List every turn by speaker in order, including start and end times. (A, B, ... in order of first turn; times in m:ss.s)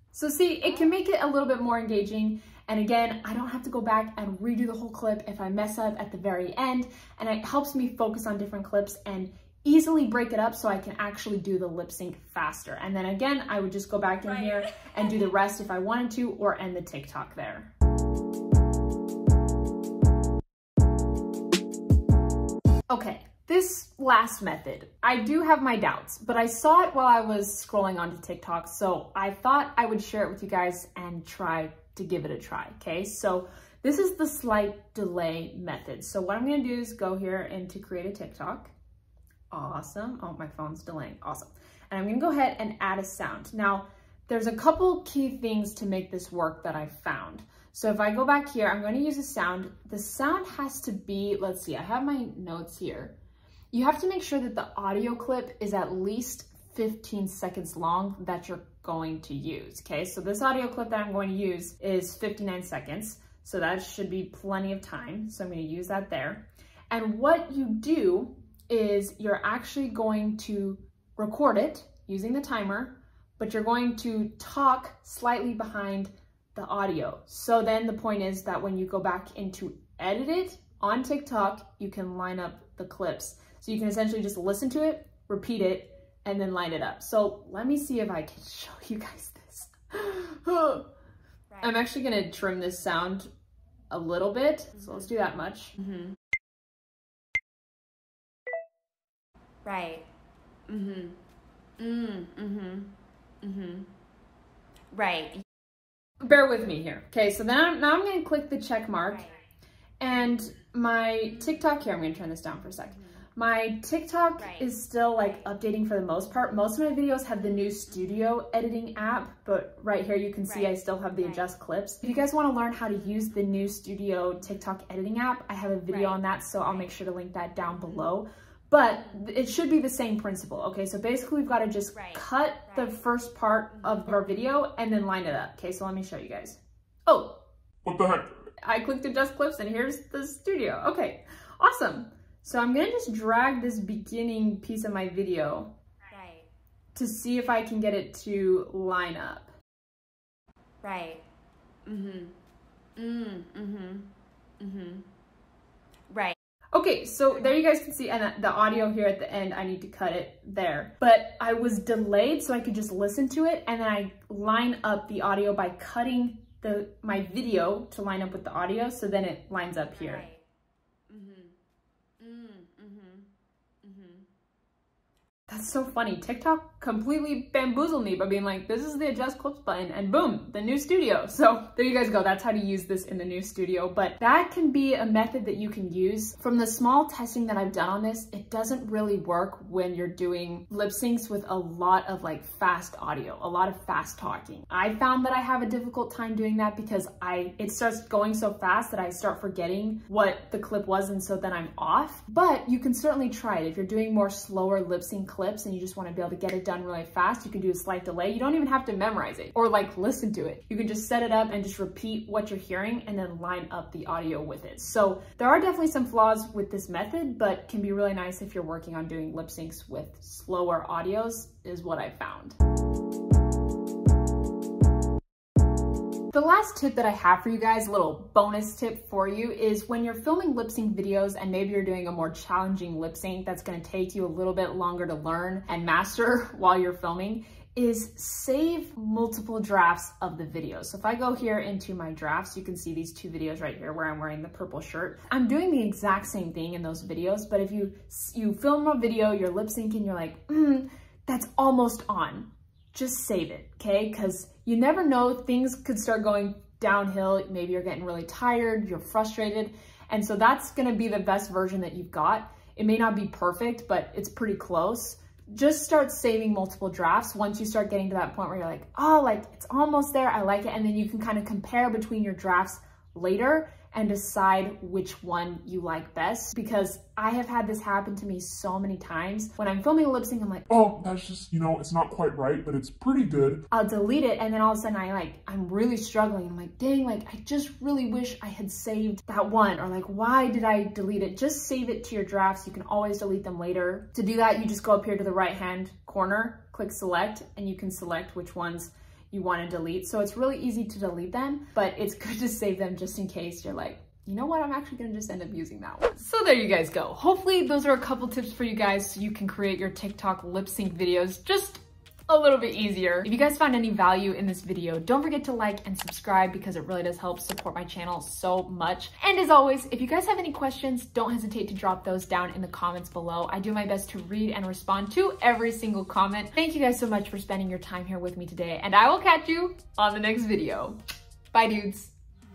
0:00.1-0:17.7 A
0:00.6-0:01.0 B
0:14.2-0:15.2 B
0:22.9-0:38.7 A
0:39.5-0:53.2 A
0:53.7-1:30.9 A
1:31.5-1:31.8 B
1:31.6-1:33.3 A
1:33.9-1:35.7 A
1:34.7-1:35.1 B
1:35.8-1:36.2 B
1:39.6-1:40.0 B
1:40.7-1:41.2 B
1:41.8-1:42.9 B
1:43.4-1:43.9 B
1:44.9-1:45.4 B
1:46.2-1:49.3 A
1:49.0-1:49.4 B
1:50.0-2:17.4 A
1:52.8-1:53.2 B
1:54.4-1:55.5 B
2:00.4-2:01.5 B
2:05.9-2:06.9 B
2:07.7-2:08.1 B
2:08.9-2:09.2 B
2:11.9-2:13.0 B
2:13.8-2:14.1 B
2:17.8-2:18.3 C
2:18.6-2:25.7 A
2:26.1-2:26.5 B
2:26.9-2:29.5 A
2:30.8-2:31.2 B
2:31.8-2:32.3 B
2:33.0-2:34.1 B
2:34.6-2:35.0 B
2:36.1-2:36.4 B
2:36.7-2:50.2 A
2:49.9-2:50.4 B
2:51.1-2:51.6 B
2:52.2-2:53.3 B
2:53.8-2:54.3 B
2:55.5-3:42.6 A
3:46.3-4:40.7 A
4:40.7-4:43.6 C
4:43.7-5:31.0 A
5:31.5-5:32.1 A